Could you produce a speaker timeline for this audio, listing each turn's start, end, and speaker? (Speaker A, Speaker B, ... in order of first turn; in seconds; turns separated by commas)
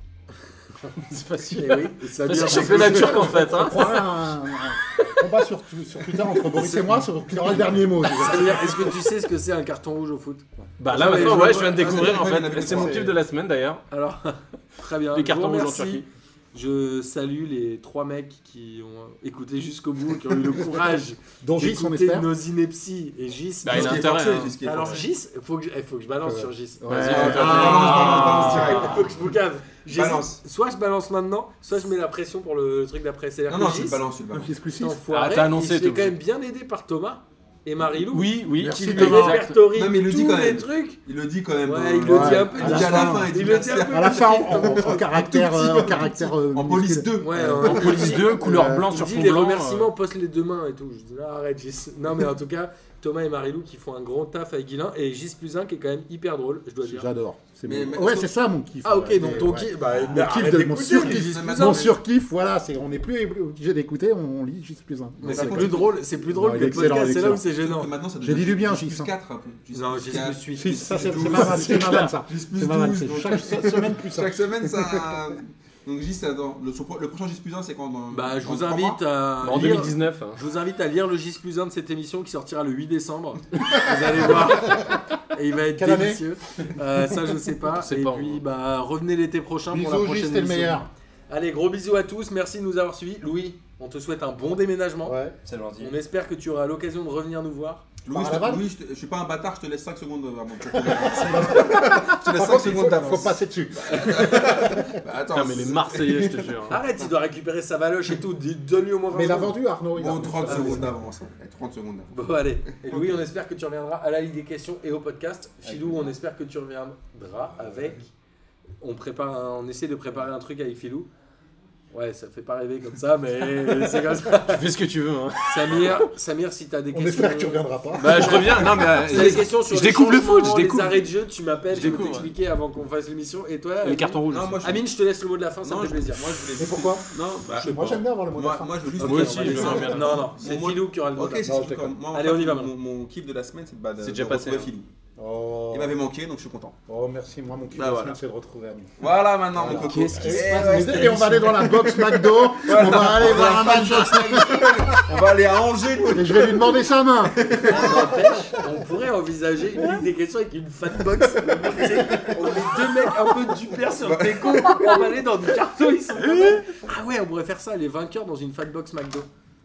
Speaker A: 0.9-4.0, Speaker B: 1.5-3.7, Speaker C: 2.5-9.0, Speaker B: 6.3-12.1, Speaker A: 10.8-13.8, Speaker D: 10.9-13.1, Speaker C: 12.6-13.1, Speaker B: 13.9-34.0, Speaker A: 15.1-16.1, Speaker C: 21.4-22.3, Speaker A: 23.6-25.0, Speaker D: 23.6-25.0, Speaker C: 26.2-28.9, Speaker A: 26.9-28.9, Speaker D: 27.1-29.2, Speaker D: 29.9-30.4, Speaker D: 33.5-34.5, Speaker C: 34.3-35.0, Speaker B: 34.8-41.0, Speaker A: 35.1-36.1, Speaker A: 38.1-39.6, Speaker C: 38.5-39.4, Speaker D: 39.7-48.1, Speaker B: 41.6-45.1, Speaker C: 42.0-49.0, Speaker B: 47.2-57.1, Speaker A: 47.5-49.9, Speaker C: 56.8-67.5, Speaker D: 57.6-58.3, Speaker B: 58.8-61.9, Speaker D: 61.0-61.9, Speaker B: 65.2-67.9, Speaker D: 65.2-66.0, Speaker D: 66.9-79.0, Speaker C: 68.2-69.1, Speaker B: 69.7-72.1, Speaker C: 70.5-75.3, Speaker B: 78.1-95.2, Speaker A: 79.4-80.4, Speaker C: 84.3-85.0, Speaker C: 85.8-86.2, Speaker A: 87.7-88.4, Speaker C: 89.7-90.9, Speaker C: 95.0-95.3, Speaker E: 95.4-96.0, Speaker B: 95.8-97.8, Speaker D: 98.0-107.1, Speaker C: 98.1-98.7, Speaker C: 100.7-104.9, Speaker B: 103.9-104.6, Speaker A: 105.3-106.8, Speaker B: 106.7-109.6, Speaker C: 109.1-110.9, Speaker D: 109.9-113.2, Speaker B: 110.4-110.9, Speaker B: 112.1-118.1, Speaker E: 115.6-116.1, Speaker C: 117.6-118.0, Speaker B: 118.8-121.1, Speaker B: 121.9-124.7, Speaker A: 123.7-126.1, Speaker B: 125.5-136.2, Speaker C: 126.9-129.3, Speaker A: 128.0-131.1, Speaker A: 131.7-132.3, Speaker A: 133.8-134.6, Speaker D: 134.3-134.8, Speaker D: 135.6-144.9, Speaker C: 136.6-140.0, Speaker B: 139.0-142.7, Speaker A: 139.0-140.3, Speaker C: 141.4-141.9, Speaker A: 141.5-141.8, Speaker A: 144.0-144.7, Speaker C: 145.2-146.0, Speaker D: 145.7-146.8, Speaker C: 146.9-148.9, Speaker D: 147.7-148.2, Speaker D: 149.0-151.5, Speaker C: 149.5-154.9, Speaker E: 149.7-151.7, Speaker A: 149.7-151.9, Speaker D: 152.5-158.1, Speaker B: 152.9-153.8, Speaker C: 156.1-158.6, Speaker B: 157.6-169.3, Speaker D: 161.3-163.2, Speaker D: 163.9-165.1, Speaker A: 166.2-166.6